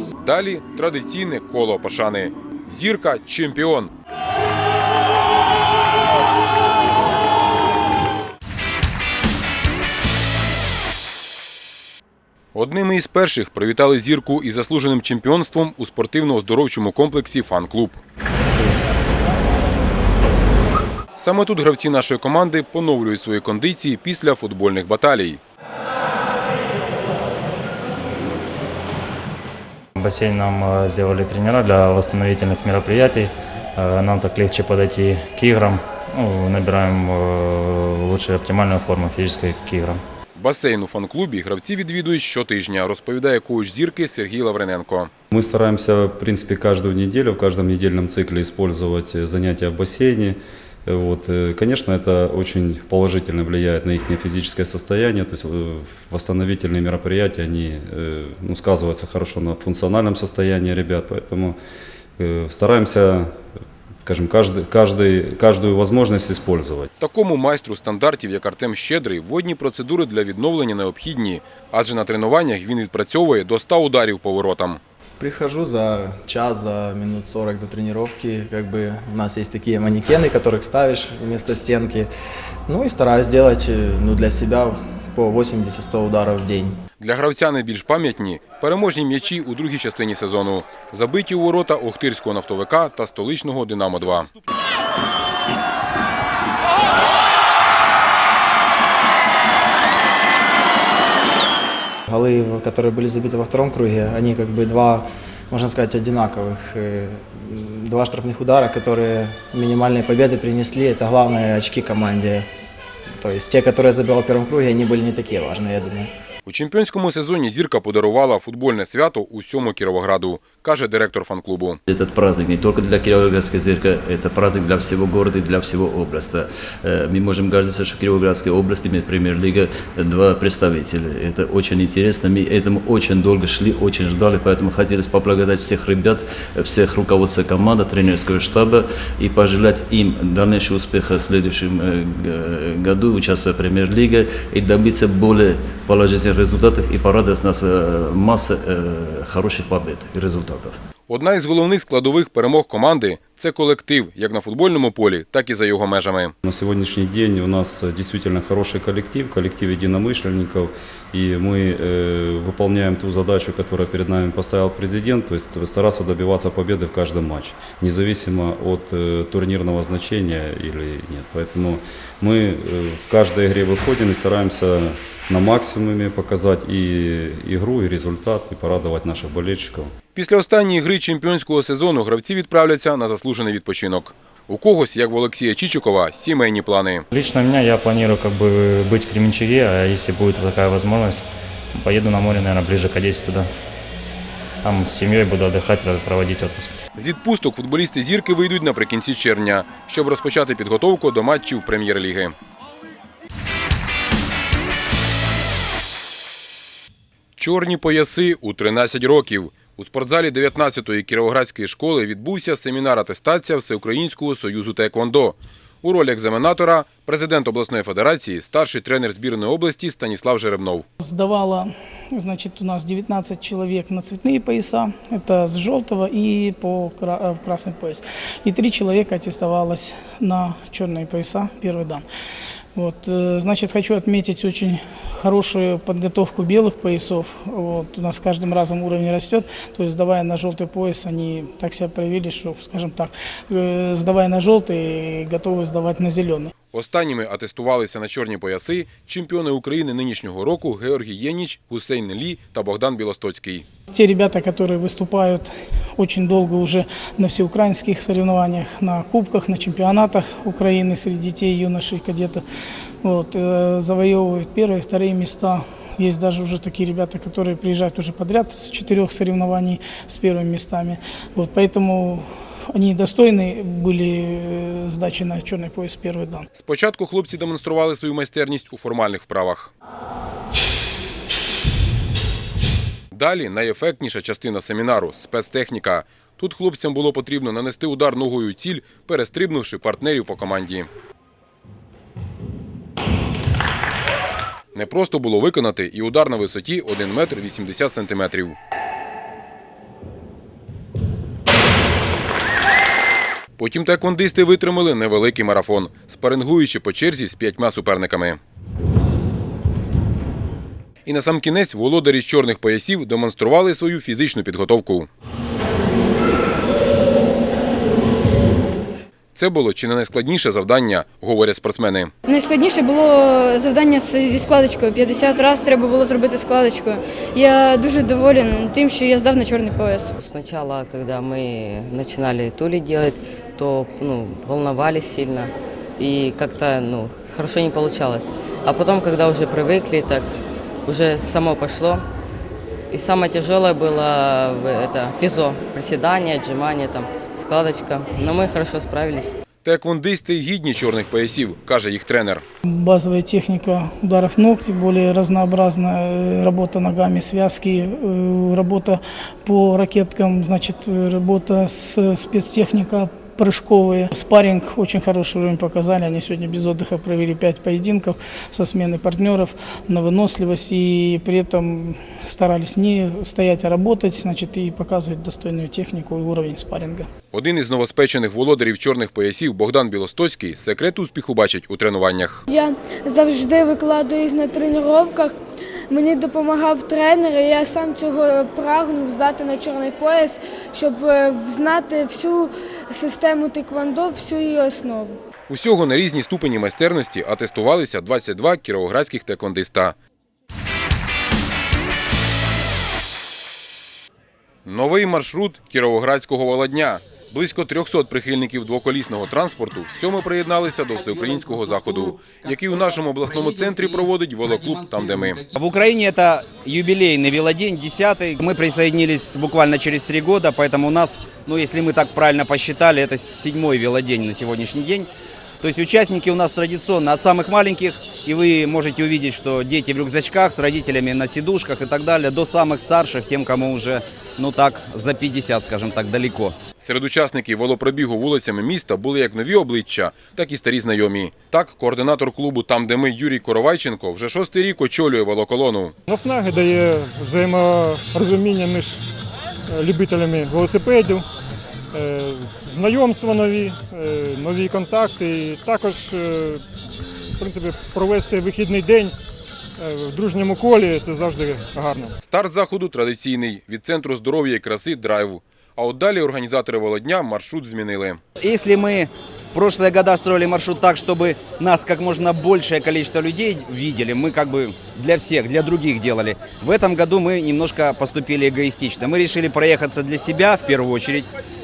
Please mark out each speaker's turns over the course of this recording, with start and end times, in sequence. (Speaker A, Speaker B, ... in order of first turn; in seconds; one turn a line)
Speaker A: 0.2-3.9
Speaker A: 12.5-18.0
Speaker A: 21.2-25.4
Speaker B: 29.9-40.0
Speaker A: 40.3-45.1
Speaker C: 45.3-61.6
Speaker C: 62.2-63.4
Speaker C: 64.0-66.9
Speaker A: 67.0-74.8
Speaker D: 75.2-82.1
Speaker D: 82.7-86.7
Speaker A: 87.0-94.3
Speaker D: 102.1-112.5
Speaker D: 113.2-116.1
Speaker A: 116.5-121.8
Speaker E: 121.9-150.7
Speaker A: 151.1-156.3
Speaker C: 156.4-179.9
Speaker A: 180.1-187.0
Speaker B: 187.1-191.2
Speaker B: 191.7-193.5
Speaker B: 194.6-196.7
Speaker A: 196.9-202.3
Speaker A: 207.4-220.8
Speaker F: 221.0-232.1
Speaker F: 232.7-246.5
Speaker A: 246.7-253.6
Speaker F: 253.9-262.4
Speaker F: 263.0-276.4
Speaker A: 276.6-279.7
Speaker A: 283.1-290.9
Speaker A: 294.7-298.6
Speaker A: 303.6-308.4
Speaker A: 311.0-315.1
Speaker A: 319.3-322.1
Speaker G: 322.3-330.1
Speaker H: 330.2-340.3
Speaker H: 340.9-342.0
Speaker H: 342.9-349.3
Speaker A: 349.6-352.4
Speaker F: 352.6-377.1
Speaker A: 377.3-382.4
Speaker I: 382.5-385.4
Speaker I: 385.9-395.2
Speaker A: 395.5-399.9
Speaker A: 404.6-415.4
Speaker J: 415.5-425.1
Speaker J: 425.6-436.6
Speaker A: 436.8-445.9
Speaker K: 446.1-449.0
Speaker K: 449.7-451.2
Speaker K: 451.9-456.6
Speaker K: 457.4-459.1
Speaker K: 459.8-462.1
Speaker A: 462.2-468.2
Speaker J: 468.4-481.3